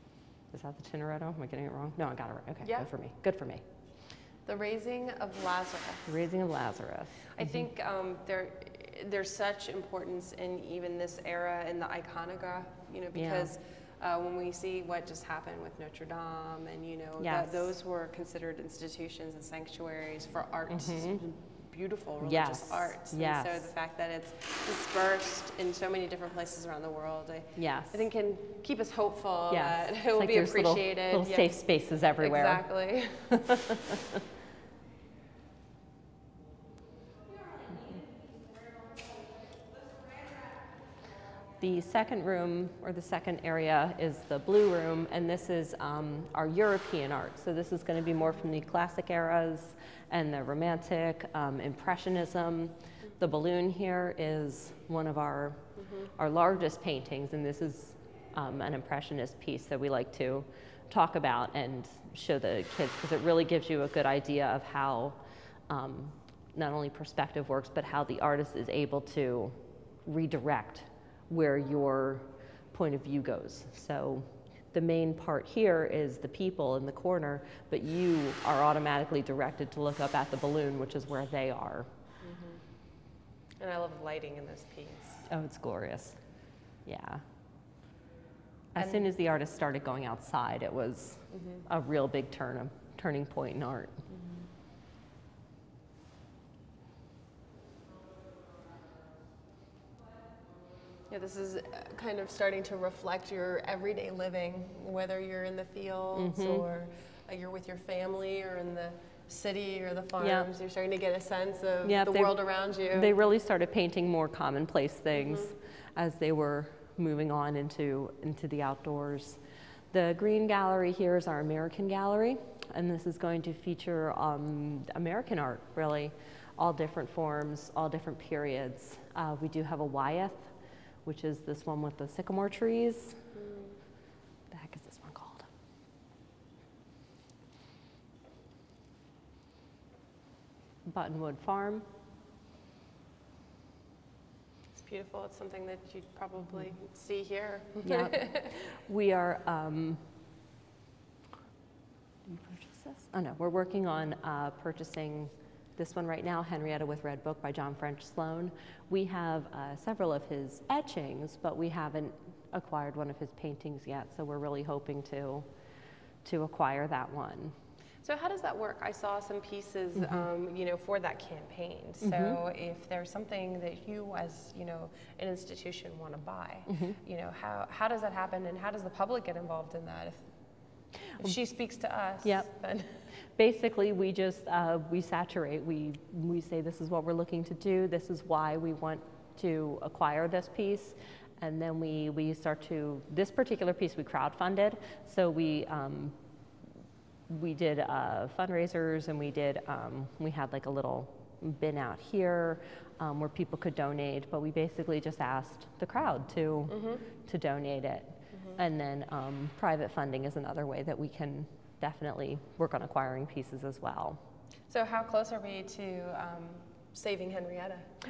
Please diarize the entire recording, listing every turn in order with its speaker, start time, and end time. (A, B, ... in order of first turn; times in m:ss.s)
0:00.5-0:03.6 A
0:02.6-0:02.9 B
0:04.5-0:06.1 B
0:06.1-0:07.6 A
0:07.3-0:31.6 B
0:13.1-0:13.5 A
0:17.2-0:17.7 A
0:20.7-0:21.2 A
0:22.2-0:23.7 A
0:27.6-0:28.1 A
0:29.5-0:32.6 A
0:32.2-0:33.4 B
0:33.3-0:34.2 A
0:41.6-1:05.2 A
1:05.7-1:21.9 A
1:22.2-1:22.6 B
1:23.6-1:25.3 B
1:25.3-1:26.2 A
1:26.8-1:27.2 A
1:28.8-1:34.0 A
1:28.8-1:29.1 B
1:31.3-1:31.7 B
1:34.1-1:34.4 B
1:41.1-1:53.1 B
1:46.1-1:46.7 A
1:50.2-1:50.5 A
1:51.8-1:52.4 A
1:52.9-1:59.4 A
1:55.2-1:55.5 B
1:59.9-2:10.5 A
2:11.0-2:13.3 A
2:13.4-2:13.8 B
2:14.5-2:15.5 A
2:20.9-2:21.8 A
2:24.7-2:28.6 B
2:27.8-2:30.1 A
2:32.3-2:45.5 A
2:46.2-2:47.6 A
2:48.0-3:00.2 B
2:50.0-2:50.2 A
2:52.0-2:52.4 A
2:56.7-2:57.0 A
3:01.2-3:03.0 B
3:03.4-3:16.2 A
3:17.3-3:34.2 A
3:26.7-3:27.0 B
3:34.7-3:37.9 B